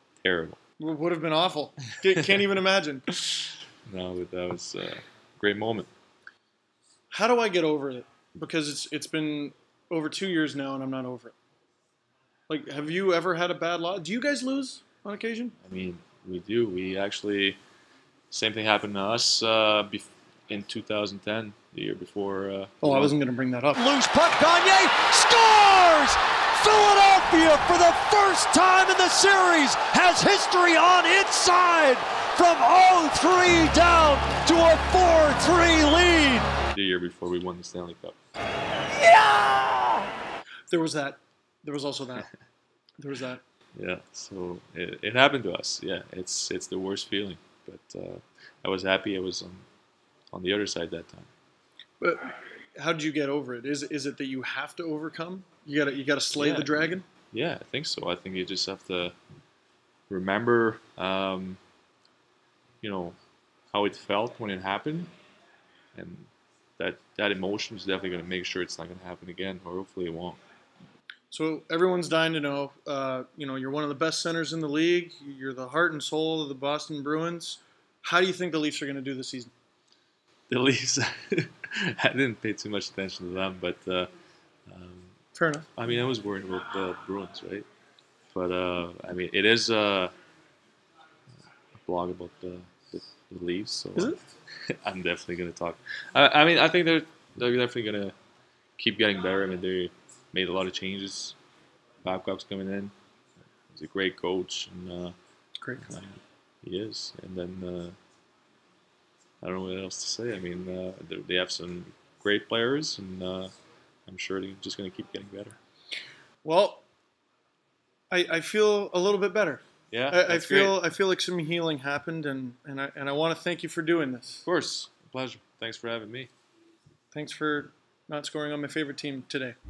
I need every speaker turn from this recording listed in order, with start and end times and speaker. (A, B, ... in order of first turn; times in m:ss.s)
0:00.2-0:00.6 A
0:00.8-0:03.1 B
0:03.3-0:05.9 A
0:07.1-0:11.3 B
0:12.5-0:15.6 B
0:15.6-0:17.6 A
0:18.3-0:23.1 A
0:22.8-0:23.8 B
0:23.8-0:36.5 C
0:36.7-0:38.2 A
0:38.9-0:40.1 C
0:40.7-0:42.3 B
0:43.0-0:43.4 B
0:43.7-0:49.6 A
0:50.3-0:51.3 A
0:52.0-0:57.0 B
0:56.3-0:59.2 A
1:00.1-1:01.6 A
1:02.8-1:03.2 A
1:03.7-1:05.1 A
1:05.9-1:10.4 A
1:11.3-1:19.5 B
1:20.5-1:24.1 A
1:24.7-1:25.1 A
1:25.3-1:25.7 B
1:25.8-1:27.7 A
1:28.3-1:30.1 A
1:31.8-1:34.2 A
1:34.8-1:38.1 A
1:38.8-1:41.4 A
1:42.0-1:42.9 A
1:43.7-1:45.2 A
1:45.6-1:45.9 B
1:45.8-1:48.0 A
1:49.4-1:53.5 A
1:54.1-1:55.6 A
1:56.4-1:56.8 B
1:58.1-2:04.4 B
1:59.9-2:00.8 A
2:04.4-2:06.3 A
2:07.1-2:09.6 B